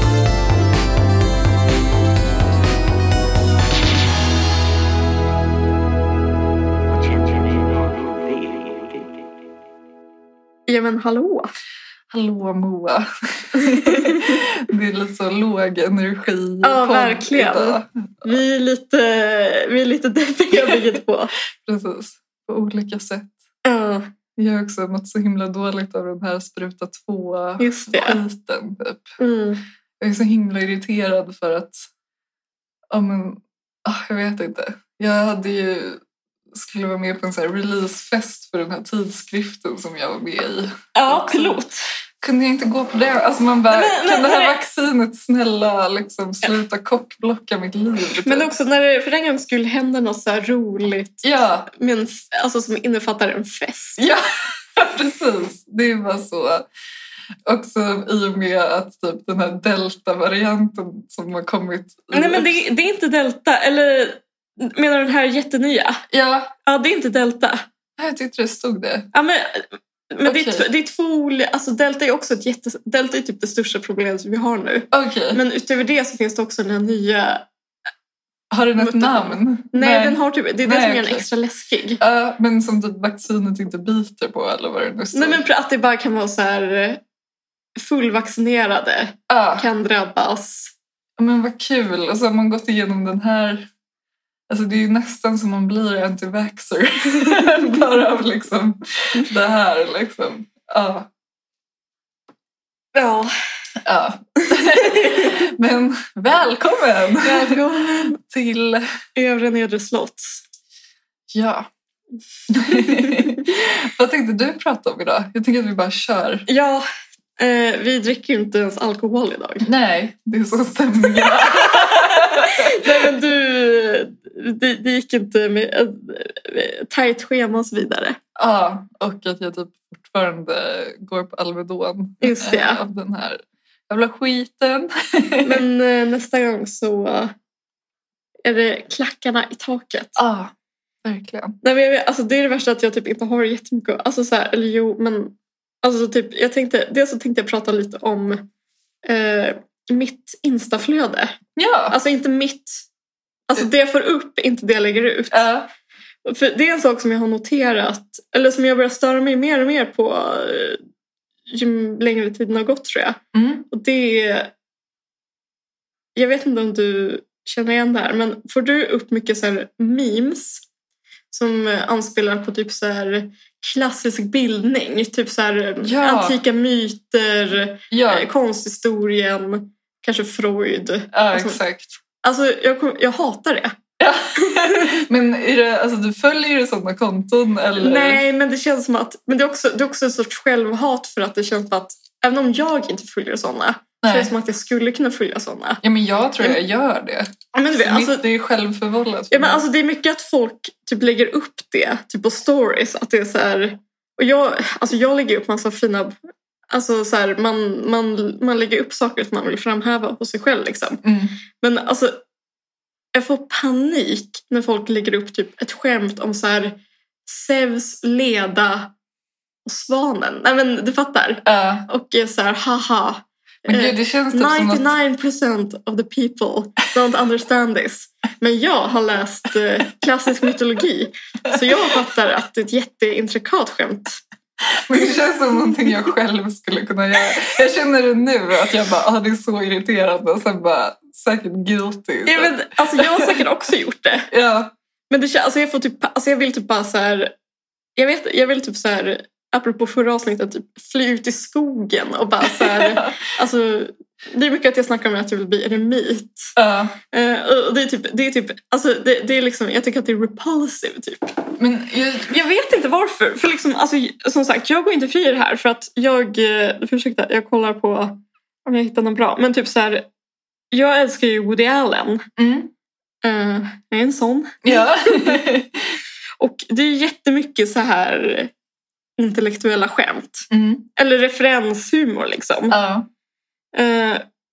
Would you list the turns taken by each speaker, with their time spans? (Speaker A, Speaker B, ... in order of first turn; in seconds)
Speaker A: 6.9-9.3
Speaker B: 10.7-11.5, 13.5-14.4, 16.6-21.3, 23.6-24.1, 27.6-28.2, 29.2-29.6, 40.9-41.8, 43.7-44.6, 48.2-54.0, 62.1-66.0, 66.6-67.7, 69.1-77.5, 78.8-82.0, 85.1-87.0, 87.8-90.7, 102.9-103.3, 104.6-105.4, 107.2-108.2, 109.2-110.4, 112.7-113.3, 116.5-116.8, 117.4-119.7, 121.2-128.2, 132.2-132.8, 135.4-137.3, 138.4-140.2, 141.6-148.5, 149.0-151.4, 151.9-152.8, 153.5-155.5, 156.2-160.8, 161.5-164.5, 166.2-170.6, 171.3-181.6, 182.2-183.8, 184.4-185.0, 187.8-195.8, 197.5-198.2, 199.3-206.1, 206.7-211.0, 211.6-212.2, 213.1-218.9, 219.6-234.2, 242.2-244.3, 245.1-247.3, 248.0-256.5, 257.1-261.3, 262.3-270.1, 270.7-272.3, 273.2-275.4, 276.4-278.5, 279.2-282.8, 283.7-284.2
Speaker C: 12.1-18.4, 20.5-21.0, 21.6-23.3, 24.4-29.2, 30.0-31.9, 32.9-41.6, 42.2-48.5, 51.2-51.7, 54.0-54.2, 54.7-56.6, 57.5-62.6, 66.1-66.5, 68.0-69.1, 70.2-70.7, 74.9-75.4, 78.5-81.3, 82.0-85.4, 89.3-89.7, 91.2-93.7, 94.5-101.1, 103.8-107.6, 108.2-108.8, 111.3-111.7, 112.5-116.5, 119.6-123.1, 128.3-135.6, 140.2-140.5, 141.0-141.6, 151.6-152.0, 155.3-155.7, 163.3-163.7, 175.8-176.4, 177.9-178.3, 181.1-182.0, 184.0-188.2, 194.0-194.3, 195.8-199.6, 211.0-211.3, 221.4-221.8, 223.7-224.9, 234.7-243.4, 244.3-244.7, 252.4-253.2, 256.6-256.9, 261.6-262.3, 272.4-272.7, 274.6-275.9, 280.5-280.9, 282.7-283.1